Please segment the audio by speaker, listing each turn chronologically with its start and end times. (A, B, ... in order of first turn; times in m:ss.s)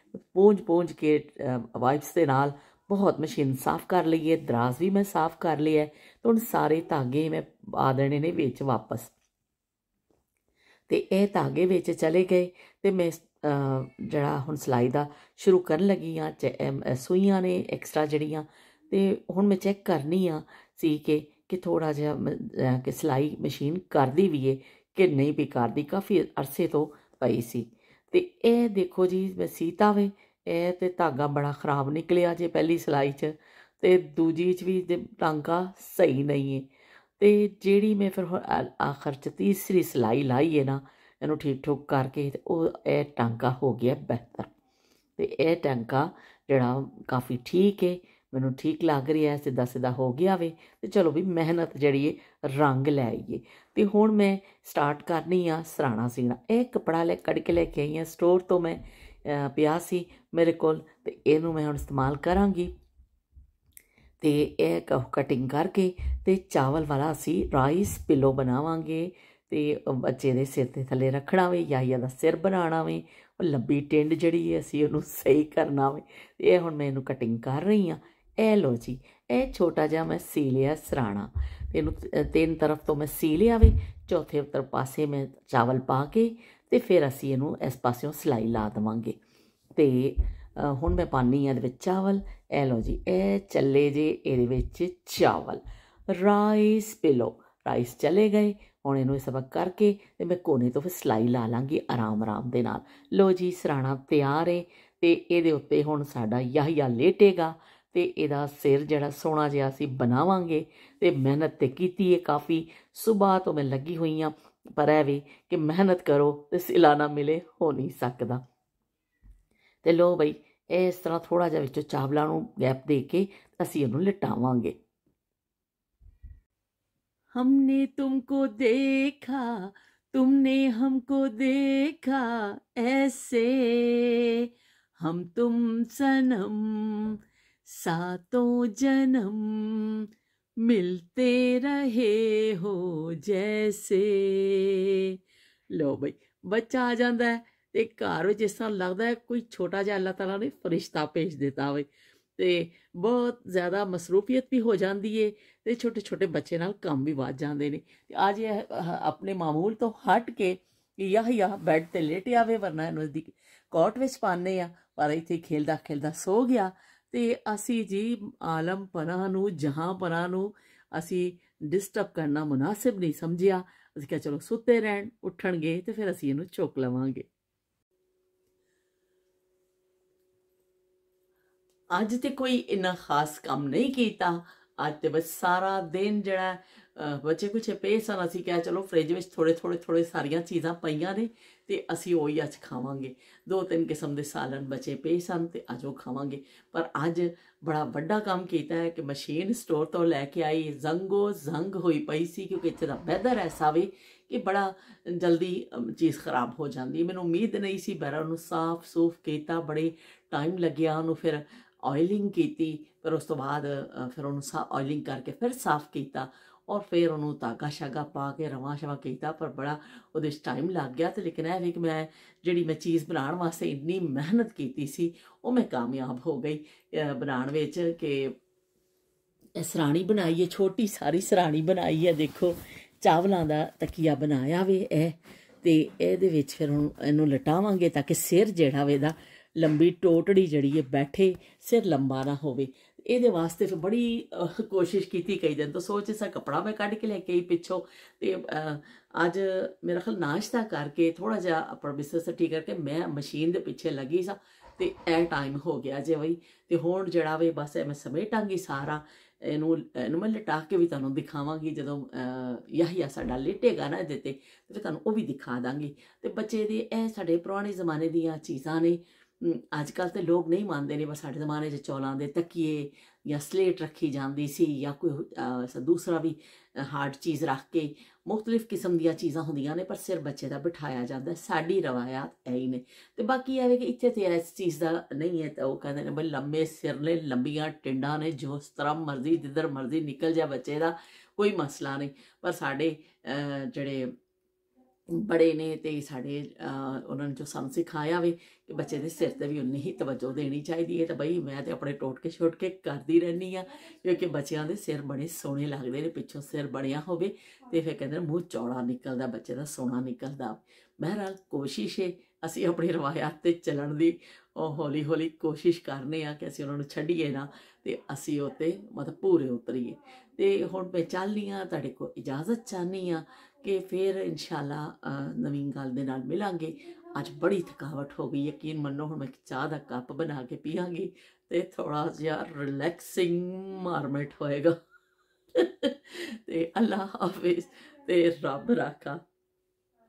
0:00.3-0:09.1 A
0:10.9-0:36.7 A
0:37.2-0:44.5 A
0:45.2-1:02.7 A
1:04.2-1:29.2 A
1:29.8-1:58.4 A
1:59.8-2:04.8 A
2:07.3-2:20.1 A
2:20.6-2:25.2 A
2:25.7-2:57.3 A
3:01.9-3:48.3 A
3:49.6-4:54.1 A
4:55.1-5:34.8 A
5:35.6-5:39.2 A